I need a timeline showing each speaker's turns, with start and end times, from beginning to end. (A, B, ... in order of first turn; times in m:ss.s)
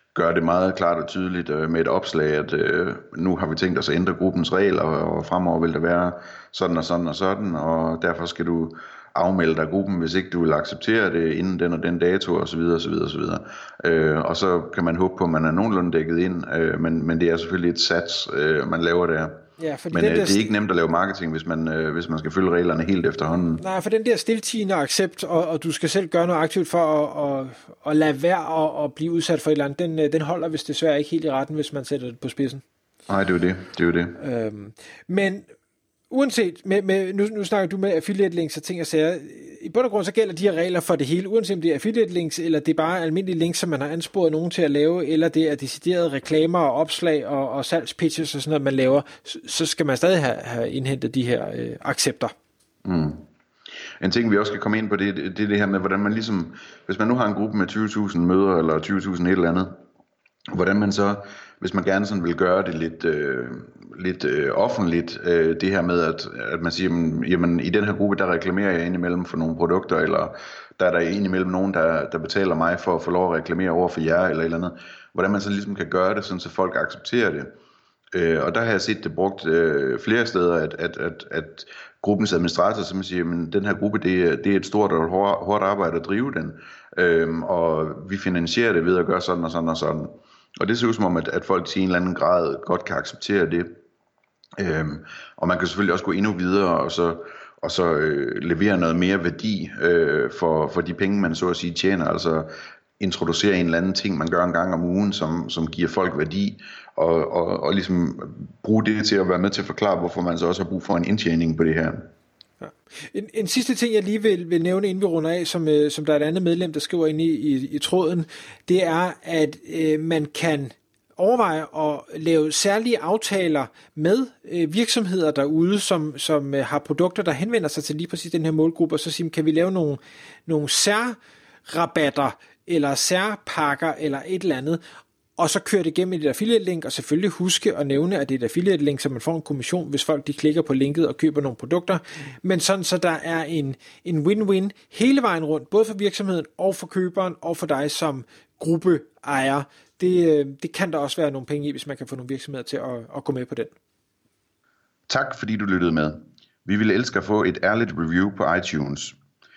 0:00.1-0:23.6 A
0:19.6-0:20.5 B
0:23.6-0:32.6 B
0:33.1-0:34.2 A
0:34.2-0:35.5 B
0:36.1-0:52.3 B
0:52.8-0:53.2 A
0:54.0-0:59.8 A
1:00.5-1:17.5 A
1:18.1-1:33.8 A
1:34.6-1:52.0 A
1:52.6-2:14.8 B
2:15.4-2:33.7 B
2:35.1-2:39.2 A